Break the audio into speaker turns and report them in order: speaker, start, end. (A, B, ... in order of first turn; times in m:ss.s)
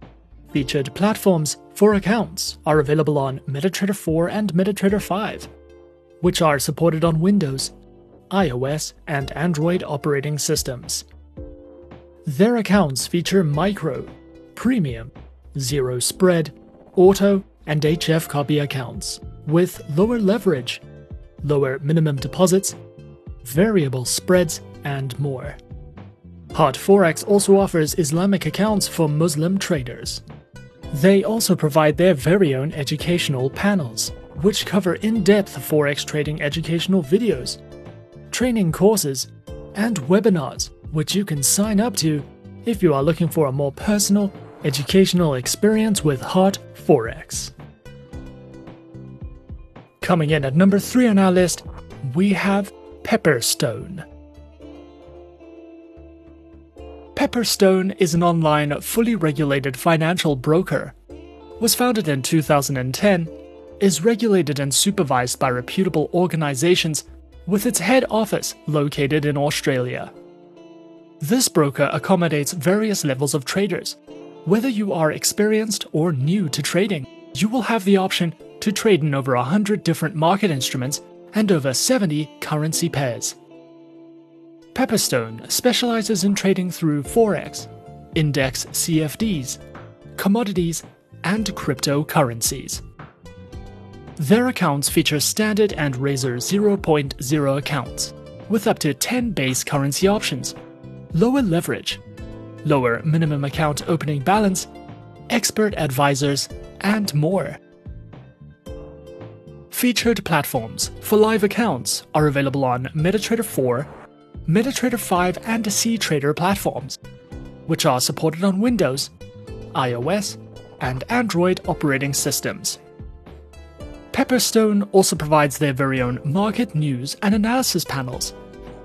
0:00.5-0:05.5 A
0:06.2-0:07.7 A
0:08.3-0:11.0 A
0:12.2-0:20.8 A
0:21.4-0:22.8 A
0:23.4-0:25.6 A
0:26.5-0:30.2 A
0:30.9-0:37.6 A
0:38.3-0:47.5 A
0:50.0-0:54.0 A
0:57.1-1:00.9 A
1:01.6-1:10.1 A
1:11.2-1:23.4 A
1:24.7-1:29.6 A
1:30.2-1:32.8 A
1:34.2-1:40.6 A
1:41.1-1:42.0 A
1:42.6-1:44.7 A
1:45.3-1:47.6 A
1:49.7-1:53.9 A
1:54.4-1:57.0 A
1:57.7-1:59.1 A
1:59.7-2:02.8 A
2:04.1-2:08.3 A